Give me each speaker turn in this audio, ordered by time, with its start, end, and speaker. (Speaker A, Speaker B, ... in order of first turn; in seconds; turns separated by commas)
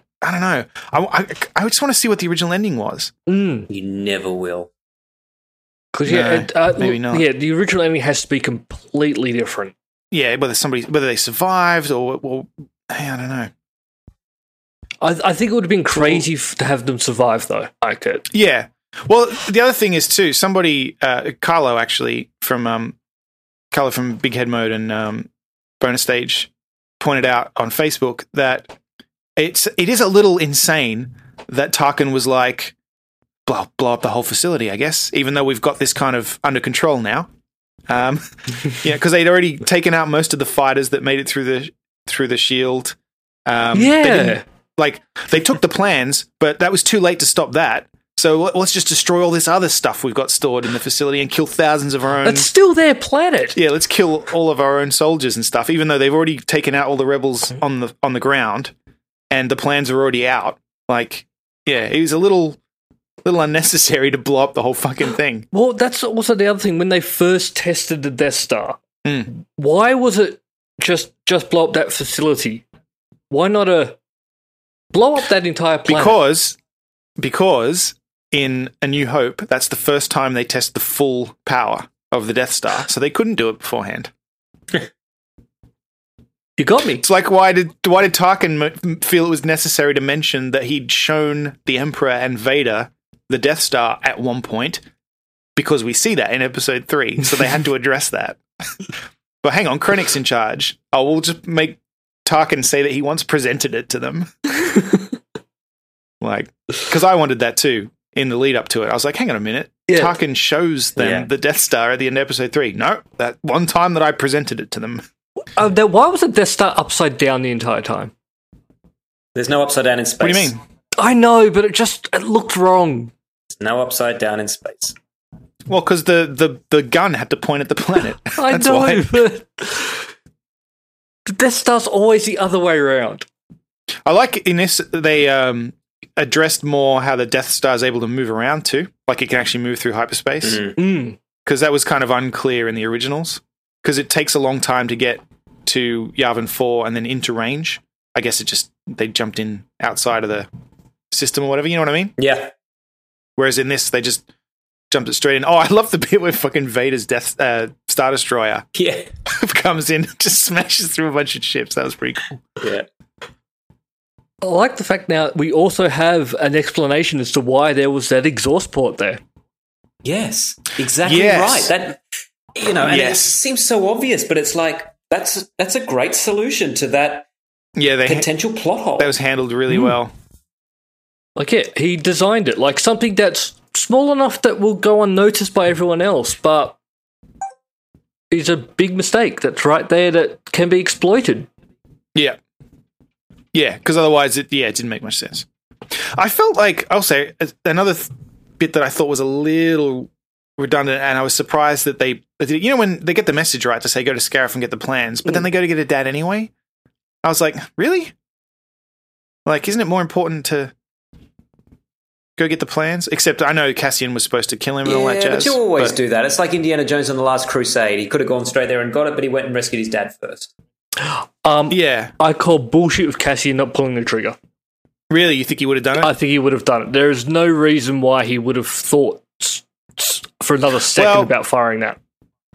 Speaker A: 0.2-3.1, Speaker B: 3.3-3.7, Speaker C: 3.7-4.7, Speaker B: 5.9-9.7, Speaker A: 6.0-7.3, Speaker A: 10.1-13.5, Speaker B: 15.0-18.3, Speaker A: 15.9-16.2, Speaker A: 18.3-22.9, Speaker A: 23.7-25.3, Speaker A: 25.8-28.7, Speaker A: 29.4-32.7, Speaker A: 33.5-37.3, Speaker A: 37.9-52.5, Speaker B: 43.7-44.4, Speaker B: 52.2-53.6, Speaker A: 53.5-58.7, Speaker A: 59.3-62.6, Speaker A: 63.2-65.5, Speaker B: 65.5-72.6, Speaker A: 69.0-69.3, Speaker B: 73.3-74.0, Speaker B: 74.9-76.2, Speaker A: 75.8-76.6, Speaker A: 77.2-84.1, Speaker B: 86.6-87.0, Speaker A: 87.0-94.8, Speaker A: 95.5-98.4, Speaker A: 99.4-104.6, Speaker A: 106.2-115.0, Speaker B: 109.9-110.1, Speaker C: 111.0-111.3, Speaker B: 115.5-118.1, Speaker C: 119.3-120.6, Speaker A: 120.2-120.6, Speaker B: 121.0-123.1, Speaker C: 123.5-124.9, Speaker A: 125.7-129.1, Speaker B: 128.3-130.1, Speaker B: 131.3-133.2, Speaker A: 134.1-140.7, Speaker C: 140.4-140.7, Speaker B: 140.8-141.2, Speaker A: 141.4-150.5, Speaker A: 151.1-152.1, Speaker C: 152.2-152.5, Speaker A: 153.4-154.2, Speaker A: 154.9-158.7, Speaker C: 158.7-159.1, Speaker A: 159.2-162.2, Speaker C: 162.6-162.8, Speaker B: 164.4-169.2, Speaker C: 170.0-172.0, Speaker A: 171.0-171.7, Speaker C: 172.5-177.3, Speaker A: 172.8-173.3, Speaker A: 177.8-178.3, Speaker C: 178.1-179.1, Speaker A: 179.0-180.1, Speaker B: 181.3-186.8, Speaker B: 188.3-191.5, Speaker A: 193.5-206.5, Speaker A: 207.2-208.1, Speaker A: 209.4-210.7, Speaker A: 212.4-215.9, Speaker C: 214.8-220.5, Speaker B: 221.0-224.4, Speaker A: 221.7-222.1, Speaker A: 225.1-226.1, Speaker B: 226.0-232.0, Speaker A: 230.9-231.3